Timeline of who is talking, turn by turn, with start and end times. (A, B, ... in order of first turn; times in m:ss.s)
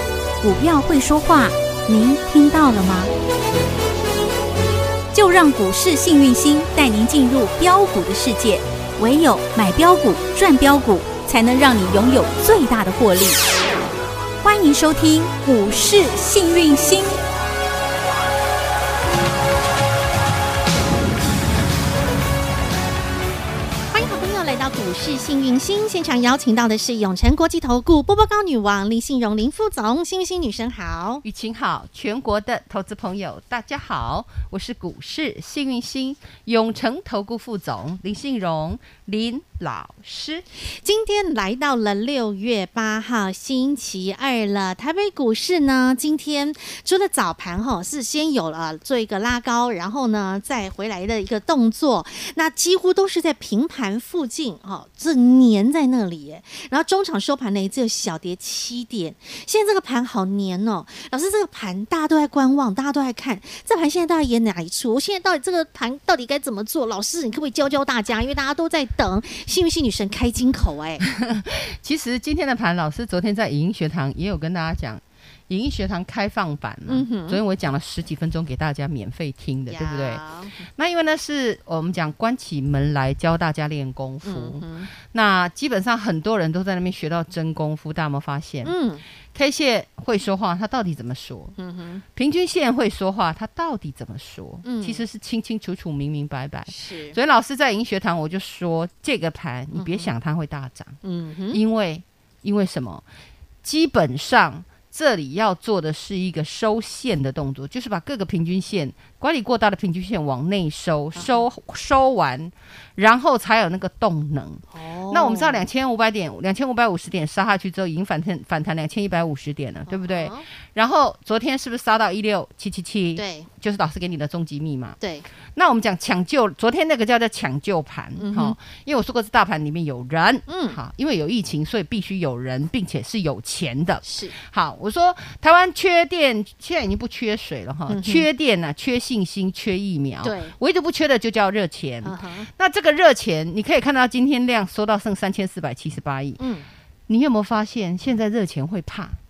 0:00.4-0:03.1 A
0:05.1-0:13.4 A
0:14.4-0:17.2 A
0:23.9-0:31.2 B
0:31.2-0:40.4 C
0:40.7-1:11.0 B
1:11.0-1:28.7 C
1:16.9-1:17.4 B
1:19.7-1:20.6 B
1:24.2-1:24.9 B
1:28.6-1:29.0 B
1:29.3-1:31.5 C
1:31.6-1:32.0 B
1:32.1-1:41.0 C
1:34.6-1:35.0 B
1:36.7-1:37.2 B
1:39.7-1:40.1 B
1:41.0-1:41.6 B
1:41.5-1:43.0 C
1:43.6-2:05.0 C
1:51.1-1:51.5 B
1:54.7-1:55.6 B
1:59.9-2:00.4 B
2:03.2-2:03.5 B
2:05.0-2:05.2 B
2:05.5-2:26.4 C
2:08.2-2:08.6 B
2:10.5-2:10.8 B
2:14.0-2:14.3 B
2:17.9-2:18.3 B
2:20.2-2:20.5 B
2:22.0-2:22.5 B
2:26.4-2:26.7 B
2:27.1-2:29.2 C